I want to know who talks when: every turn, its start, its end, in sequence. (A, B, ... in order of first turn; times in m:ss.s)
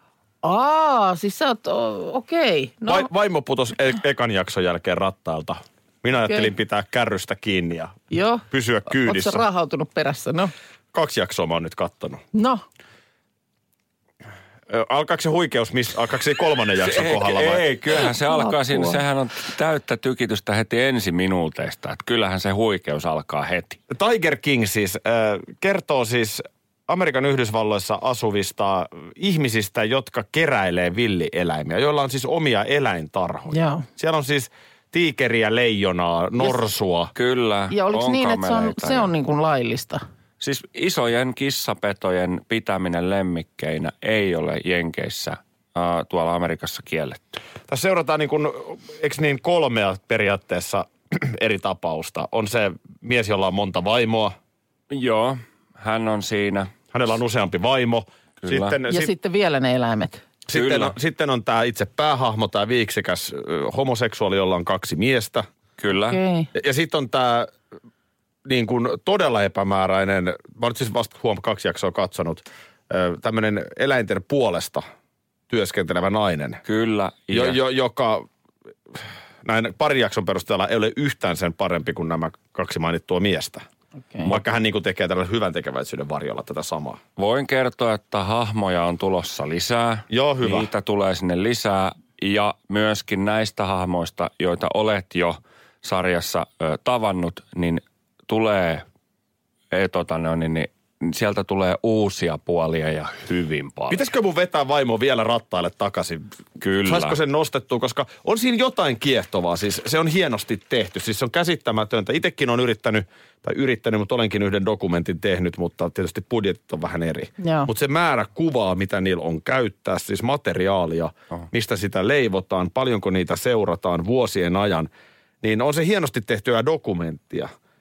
0:00.4-0:03.1 A
0:02.9-0:08.0 B
0:08.1-0:10.5 A
0:08.5-0:09.4 B
0:10.9-0:12.2 B
0:12.3-0:12.6 A
0:14.7-0:17.7 B
0:16.8-0:23.8 C
0:18.2-0:19.0 A
0:23.9-0:37.1 B
0:33.5-0:33.8 A
0:37.1-0:39.1 C
0:37.7-0:40.0 A
0:40.4-0:47.4 C
0:47.7-0:54.4 B
0:54.9-0:56.7 C
0:56.9-0:59.1 B
0:58.4-0:58.7 C
0:58.9-1:00.2 A
1:00.5-1:05.5 B
1:00.5-1:00.9 C
1:05.8-1:06.2 C
1:06.1-1:06.5 A
1:06.6-1:07.5 B
1:08.4-1:14.8 B
1:15.5-1:16.6 B
1:16.7-1:17.6 C
1:17.3-1:18.3 B
1:18.9-1:23.7 B
1:24.2-1:27.0 B
1:27.2-1:38.8 C
1:30.1-1:30.7 B
1:39.7-1:44.0 C
1:43.9-1:46.3 B
1:46.6-1:47.2 C
1:46.8-2:04.9 B
1:57.4-1:57.7 A
2:05.4-2:07.5 B